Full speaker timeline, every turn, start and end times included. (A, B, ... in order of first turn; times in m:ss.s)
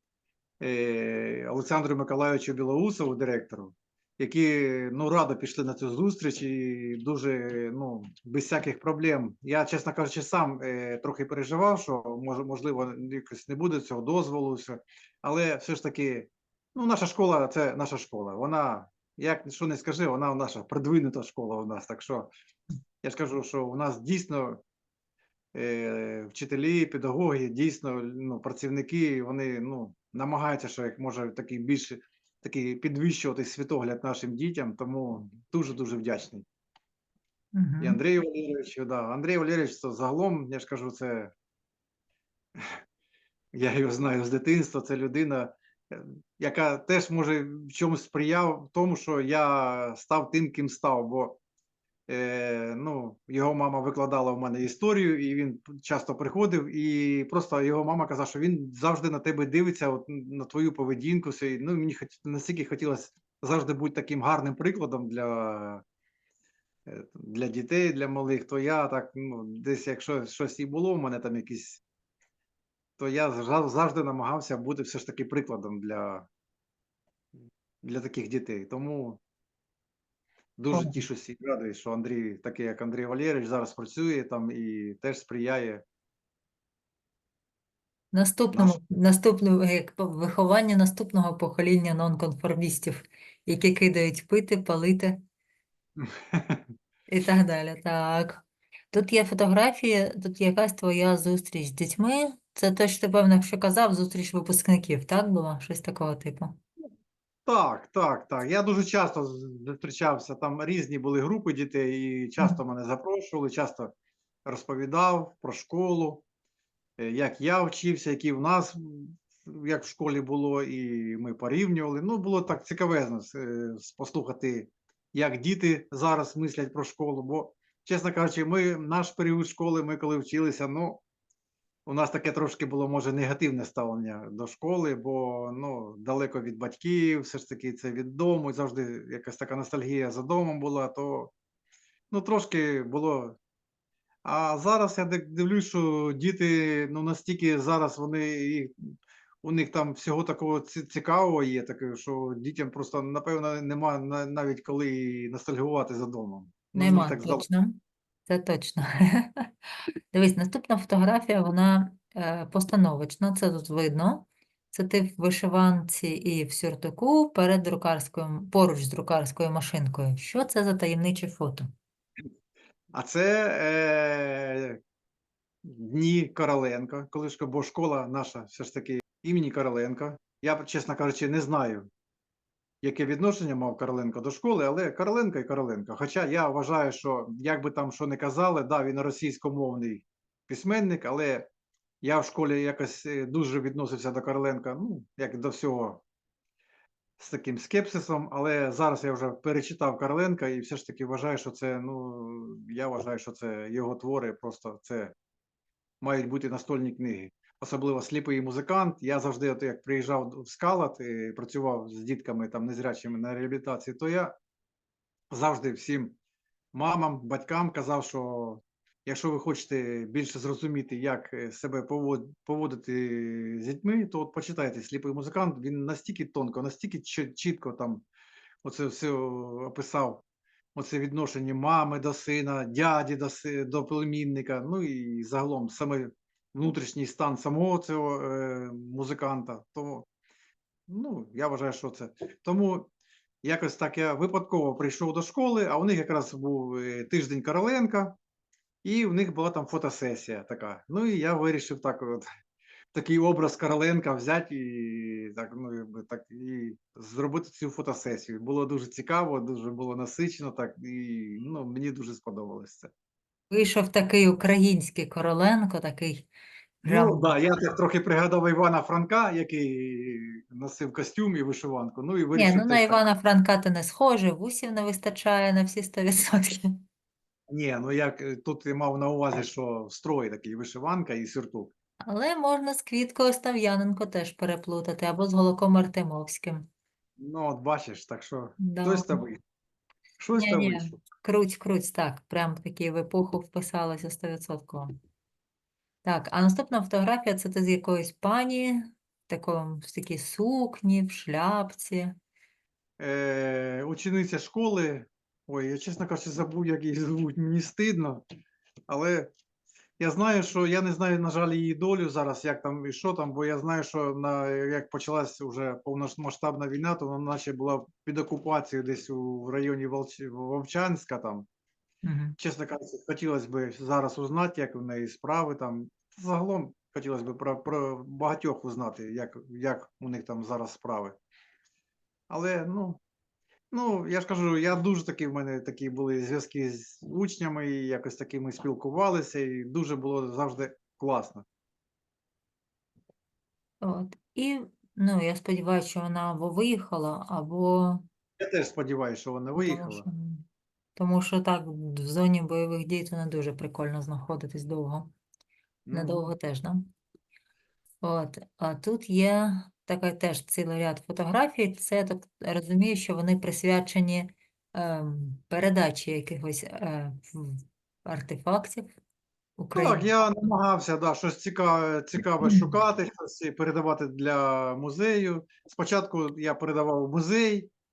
0:00.6-0:22.3 A
0:23.0-0:24.6 A
0:25.5-0:36.4 A
0:37.5-0:38.0 B
0:37.8-0:41.3 A
0:43.5-0:51.4 A
0:52.1-1:05.8 A
1:06.9-1:11.8 A
1:13.0-1:16.3 A
1:17.8-1:19.2 A
1:20.6-1:25.8 A
1:20.7-1:21.0 B
1:28.1-1:35.2 B
1:36.0-1:36.7 A
1:37.1-1:46.6 B
1:47.5-1:53.9 A
1:54.5-1:56.2 A
1:57.0-2:11.0 A
2:11.9-2:21.3 A
2:22.1-2:23.4 A
2:24.2-2:37.4 A
2:36.8-2:39.5 B
2:40.1-2:51.6 B
2:52.9-2:54.8 A
2:55.6-3:01.9 A
3:02.8-3:11.5 A
3:12.0-3:16.0 A
3:17.2-3:25.1 A
3:26.0-3:34.3 A
3:35.3-3:36.2 A
3:36.7-3:48.0 A
3:48.6-3:50.2 A
3:50.8-4:00.0 A
4:00.9-4:02.9 A
4:03.4-4:08.2 A
4:08.8-4:12.2 A
4:12.9-4:22.9 A
4:23.5-4:26.3 B
4:26.8-4:27.3 B
4:26.9-4:33.0 A
4:32.3-4:36.7 B
4:37.5-4:41.7 A
4:42.0-4:46.7 B
4:47.2-4:49.4 A
4:48.6-4:49.2 B
4:50.2-4:51.0 A
4:50.4-4:54.9 B
4:56.0-5:02.1 B
5:03.0-5:08.2 A
5:08.9-5:09.3 A
5:10.0-5:21.5 A
5:22.0-5:22.4 B
5:22.4-5:31.2 A
5:32.3-5:33.0 A
5:33.7-5:41.4 A
5:43.8-5:48.0 B
5:48.4-5:50.1 A
5:49.6-5:50.4 B
5:51.0-5:55.1 B
5:55.8-5:56.2 A
5:55.9-5:56.9 B
5:58.0-6:08.9 B
6:09.6-6:10.1 B
6:09.8-6:17.7 A
6:12.4-6:12.8 B